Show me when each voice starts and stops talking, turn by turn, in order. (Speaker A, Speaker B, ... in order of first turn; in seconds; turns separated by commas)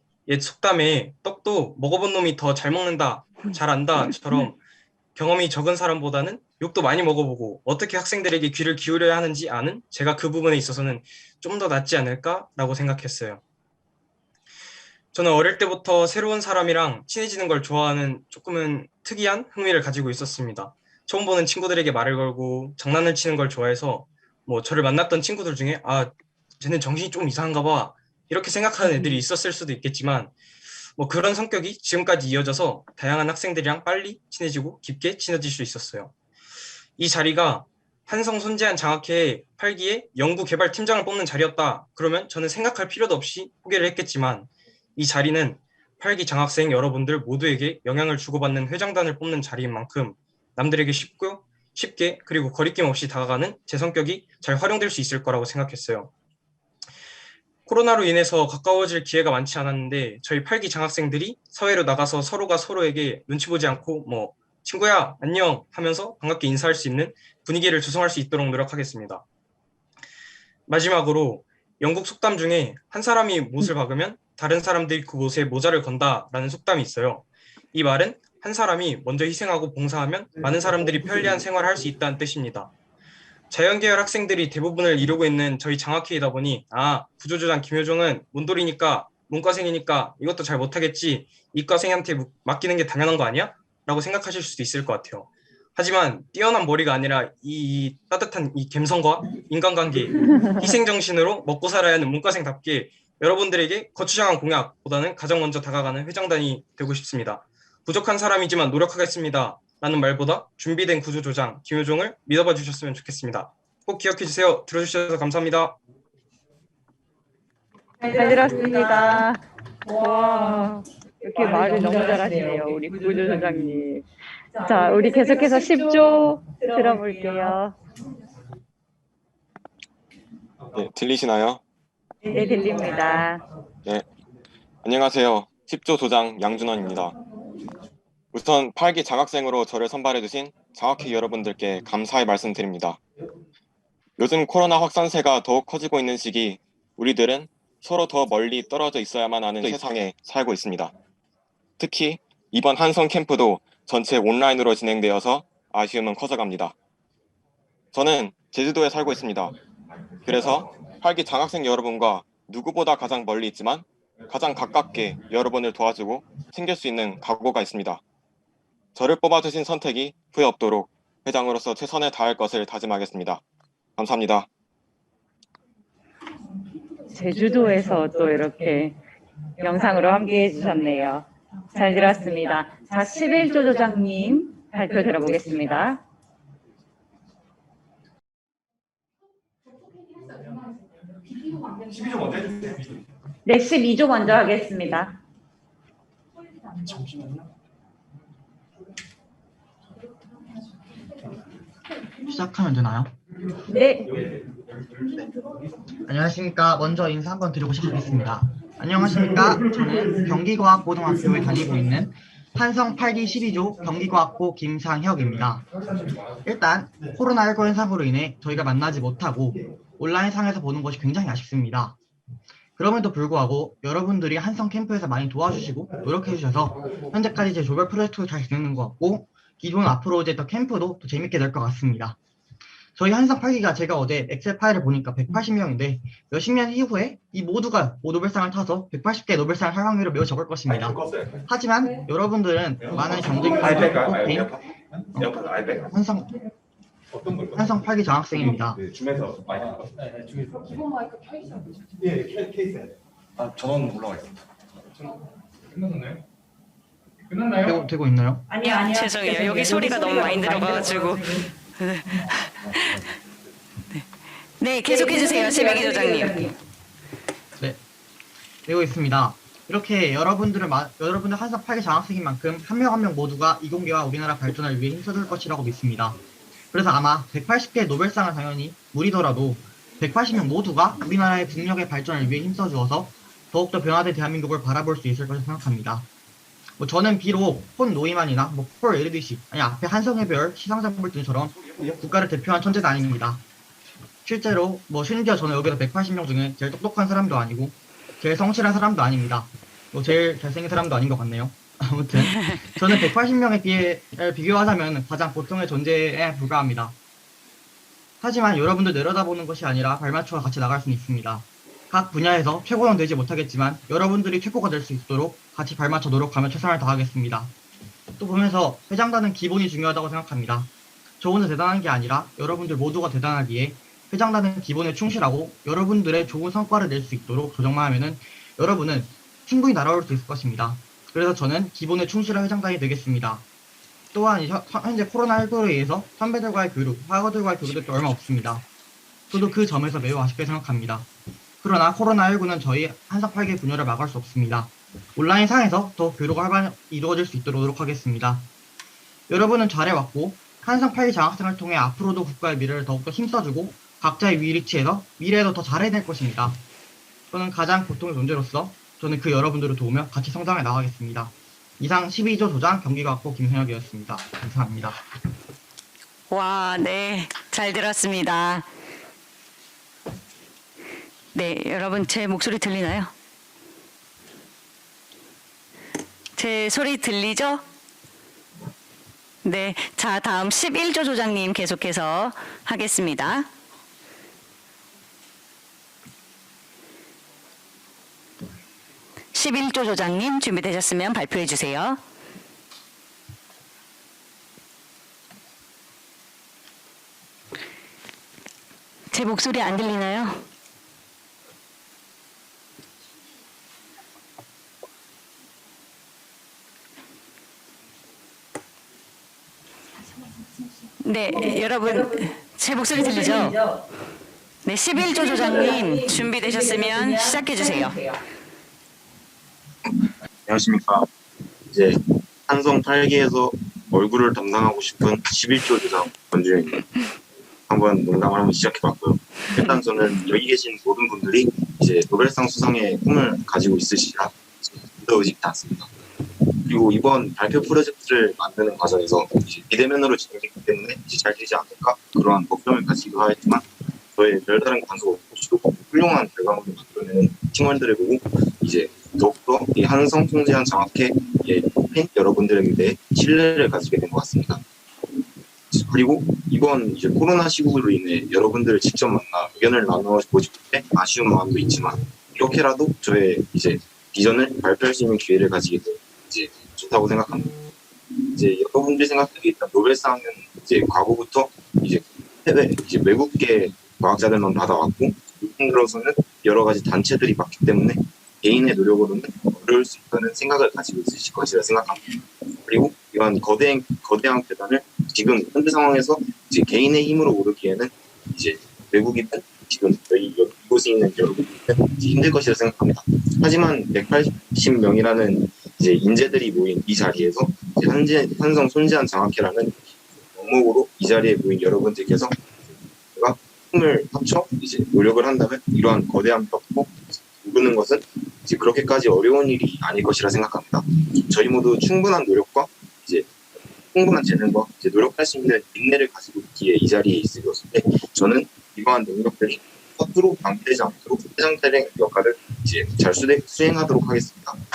Speaker A: 0.3-4.6, Speaker A: 5.2-13.4, Speaker A: 15.1-30.3, Speaker B: 28.8-29.1, Speaker A: 31.0-36.1, Speaker A: 37.0-56.1, Speaker A: 57.7-69.2, Speaker A: 70.7-82.7, Speaker A: 83.5-115.8, Speaker B: 118.0-127.8, Speaker C: 120.0-120.3, Speaker D: 130.7-131.6, Speaker B: 132.2-133.4, Speaker D: 134.8-137.2, Speaker D: 138.3-143.0, Speaker D: 144.2-150.9, Speaker D: 151.8-156.7, Speaker D: 157.9-159.5, Speaker D: 160.2-168.0, Speaker D: 168.9-173.4, Speaker D: 174.0-174.5, Speaker B: 177.1-179.0, Speaker B: 179.6-186.0, Speaker B: 193.4-195.1, Speaker E: 202.3-203.1, Speaker B: 203.7-204.1, Speaker E: 206.1-215.7, Speaker E: 216.4-222.0, Speaker E: 222.8-232.2, Speaker E: 233.0-244.6, Speaker E: 245.2-246.3, Speaker E: 247.5-248.8, Speaker E: 257.6-258.4, Speaker B: 258.5-261.4, Speaker C: 258.6-263.0, Speaker C: 264.6-266.4, Speaker B: 264.9-266.5, Speaker E: 268.7-276.2, Speaker E: 276.7-286.1, Speaker E: 286.8-293.4, Speaker E: 294.2-307.0, Speaker E: 308.2-317.5, Speaker E: 318.2-333.4, Speaker E: 334.1-338.7, Speaker E: 339.3-341.1, Speaker E: 341.6-348.5, Speaker E: 349.3-356.6, Speaker E: 357.3-365.0, Speaker C: 366.3-368.7, Speaker C: 371.3-373.1, Speaker C: 376.4-377.6, Speaker C: 379.4-383.5, Speaker C: 389.3-392.0, Speaker C: 399.1-400.4, Speaker C: 411.0-413.6, Speaker B: 411.3-412.2, Speaker B: 412.9-413.8, Speaker C: 414.6-418.0, Speaker B: 415.0-418.2, Speaker F: 420.5-421.1, Speaker F: 421.7-426.9, Speaker F: 427.7-435.9, Speaker F: 436.6-454.6, Speaker F: 455.7-467.6, Speaker F: 468.3-502.4, Speaker F: 503.1-513.3, Speaker F: 513.9-524.6